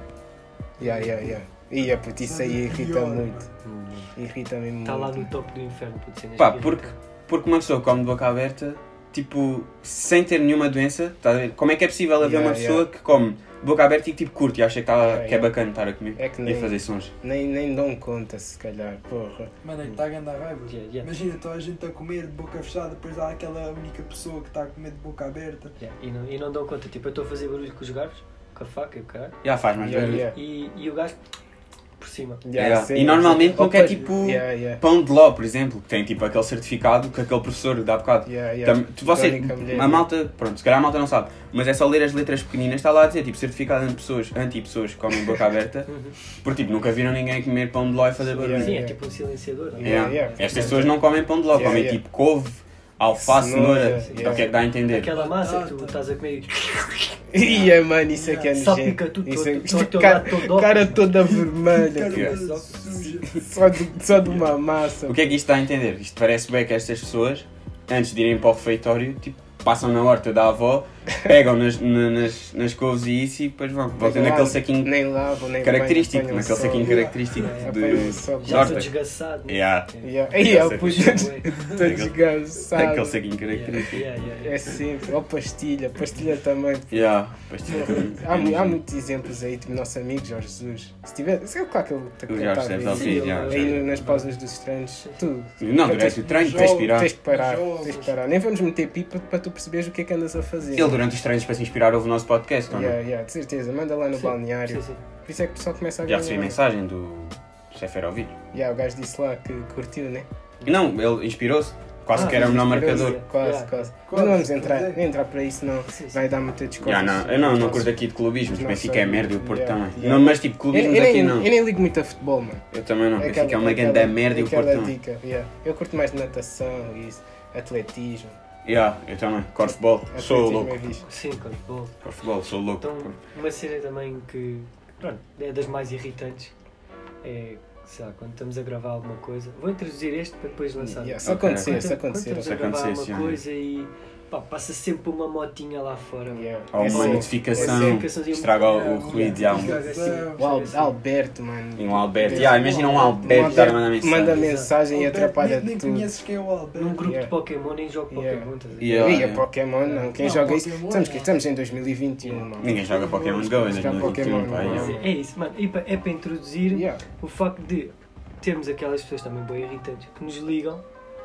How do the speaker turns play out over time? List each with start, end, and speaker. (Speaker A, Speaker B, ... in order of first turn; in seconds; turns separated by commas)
Speaker A: 0.8-3.4, Speaker B: 0.8-1.2, Speaker B: 2.2-3.5, Speaker C: 3.6-4.1, Speaker A: 4.2-5.3, Speaker C: 4.8-7.0, Speaker D: 6.4-17.1, Speaker A: 12.2-12.9, Speaker A: 15.0-15.5, Speaker A: 16.1-19.9, Speaker B: 19.6-25.7, Speaker C: 20.7-21.1, Speaker C: 25.8-29.4, Speaker D: 29.4-30.3, Speaker A: 29.8-30.4, Speaker C: 30.2-31.2, Speaker C: 32.0-32.4, Speaker A: 32.4-34.8, Speaker D: 32.5-45.9, Speaker B: 33.8-34.1, Speaker A: 38.3-40.1, Speaker C: 45.9-46.2, Speaker D: 46.4-48.8, Speaker A: 48.3-49.0, Speaker C: 48.5-50.9, Speaker A: 49.7-50.9, Speaker D: 49.8-55.1, Speaker A: 51.5-52.0, Speaker A: 53.1-54.5, Speaker C: 53.9-57.2, Speaker B: 55.1-56.0, Speaker A: 57.3-62.4, Speaker B: 58.1-58.5, Speaker C: 58.5-61.2, Speaker B: 61.2-63.5, Speaker C: 62.1-63.2, Speaker A: 63.3-65.4, Speaker D: 65.1-74.9, Speaker A: 74.0-77.1, Speaker D: 75.6-78.9, Speaker B: 76.6-77.5, Speaker C: 77.3-81.6, Speaker A: 77.6-78.9, Speaker D: 79.5-79.9, Speaker A: 80.0-83.2, Speaker D: 80.5-82.2, Speaker D: 82.7-84.0, Speaker C: 83.5-84.6, Speaker A: 84.4-87.1, Speaker D: 86.9-88.8, Speaker A: 87.7-101.1, Speaker D: 92.3-93.8, Speaker C: 92.8-94.3, Speaker C: 95.0-95.3, Speaker D: 95.6-97.1, Speaker B: 96.4-98.0, Speaker D: 100.7-103.0, Speaker A: 102.7-106.6, Speaker C: 104.1-105.0, Speaker D: 106.1-108.3, Speaker A: 108.5-110.3, Speaker D: 110.7-113.2, Speaker C: 112.1-113.9, Speaker A: 112.2-122.6, Speaker B: 114.1-115.0, Speaker C: 115.9-116.2, Speaker D: 116.8-121.5, Speaker C: 117.4-117.9, Speaker D: 122.7-124.9, Speaker A: 123.2-128.4, Speaker D: 128.7-130.9, Speaker A: 129.7-131.0, Speaker C: 131.0-131.9, Speaker D: 132.0-133.2, Speaker C: 132.8-136.5, Speaker C: 137.2-150.9, Speaker A: 140.8-142.6, Speaker D: 141.2-141.8, Speaker D: 142.5-143.4, Speaker A: 146.3-148.1, Speaker D: 146.7-149.8, Speaker B: 148.7-150.4, Speaker A: 149.1-156.1, Speaker D: 151.8-154.4, Speaker B: 152.3-153.7, Speaker C: 153.3-154.7, Speaker B: 154.9-157.1, Speaker C: 156.8-159.3, Speaker A: 157.1-157.3, Speaker A: 158.1-162.8, Speaker D: 158.8-159.4, Speaker C: 159.8-160.1, Speaker B: 160.2-161.3, Speaker D: 162.6-164.9, Speaker B: 162.7-164.4, Speaker A: 163.6-165.1, Speaker C: 164.7-170.8, Speaker A: 166.7-167.0